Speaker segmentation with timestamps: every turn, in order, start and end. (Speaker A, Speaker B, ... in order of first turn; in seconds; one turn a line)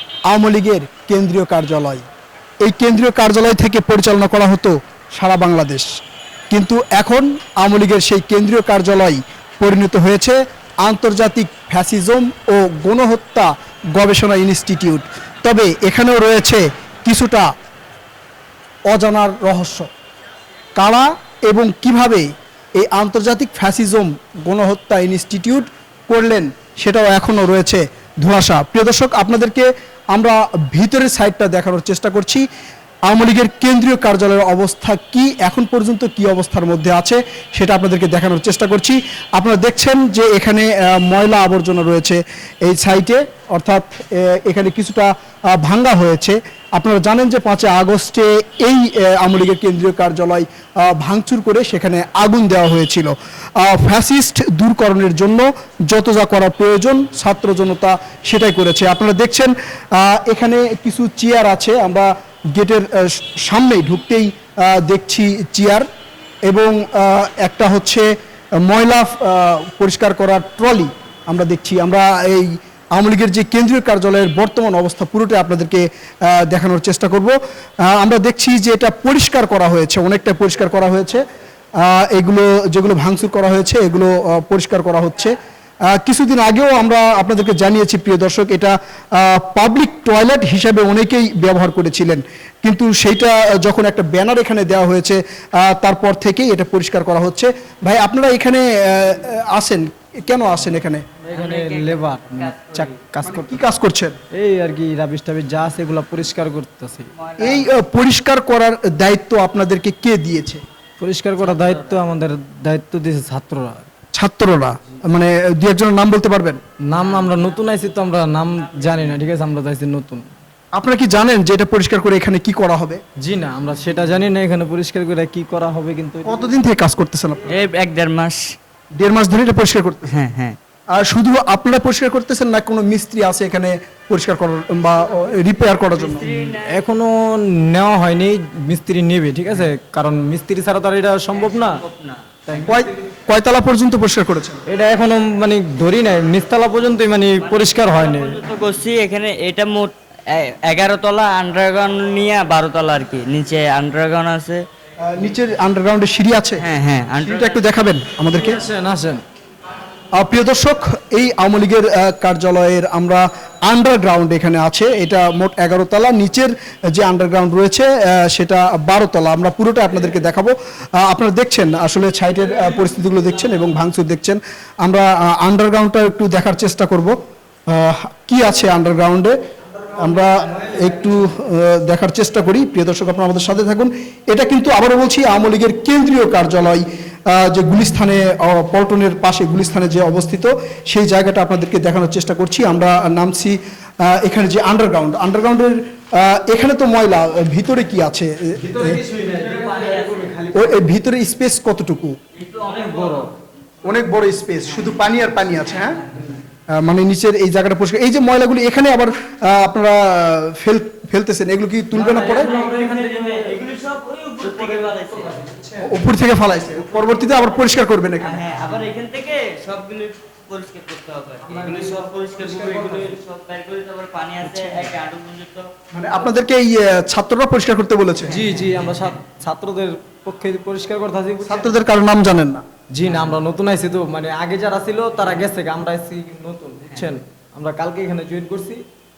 Speaker A: 0.3-2.0
Speaker A: 2.6-6.0
Speaker A: 6.5-17.5
Speaker A: 18.9-19.9
Speaker A: 20.8-32.5
Speaker A: 33.1-65.9
Speaker A: 66.5-68.1
Speaker A: 68.6-81.2
Speaker A: 81.8-85.4
Speaker A: 85.9-101.0
Speaker B: 101.2-103.6
Speaker C: 101.3-103.0
Speaker A: 102.8-104.2
Speaker B: 104.3-107.1
Speaker C: 107.2-107.7
Speaker A: 107.4-110.6
Speaker B: 111.0-113.9
Speaker C: 111.5-112.0
Speaker A: 114.2-116.6
Speaker B: 116.9-120.3
Speaker C: 117.0-117.7
Speaker A: 120.8-123.0
Speaker B: 123.2-126.5
Speaker A: 126.3-127.5
Speaker C: 127.5-128.5
Speaker A: 129.0-130.1
Speaker C: 130.1-130.6
Speaker A: 131.0-136.4
Speaker C: 135.7-136.8
Speaker B: 136.6-141.8
Speaker C: 141.3-142.7
Speaker B: 142.5-142.9
Speaker A: 142.7-144.6
Speaker B: 144.7-148.4
Speaker C: 147.4-154.7
Speaker A: 155.1-156.7
Speaker C: 156.6-157.6
Speaker A: 157.2-158.6
Speaker B: 158.3-159.2
Speaker A: 160.2-177.2
Speaker A: 177.7-179.4
Speaker A: 179.9-199.0
Speaker B: 198.6-200.8
Speaker C: 199.6-200.3
Speaker A: 200.5-202.2
Speaker C: 202.4-203.3
Speaker B: 202.6-203.3
Speaker A: 203.8-206.0
Speaker C: 204.7-205.1
Speaker C: 205.8-206.3
Speaker A: 206.8-212.5
Speaker B: 211.9-213.7
Speaker C: 212.1-215.4
Speaker B: 214.5-215.9
Speaker A: 215.8-218.4
Speaker C: 218.2-225.7
Speaker B: 221.6-221.9
Speaker B: 222.4-223.1
Speaker A: 225.9-228.4
Speaker B: 228.3-231.8
Speaker C: 228.3-228.9
Speaker A: 231.4-232.6
Speaker B: 232.9-238.8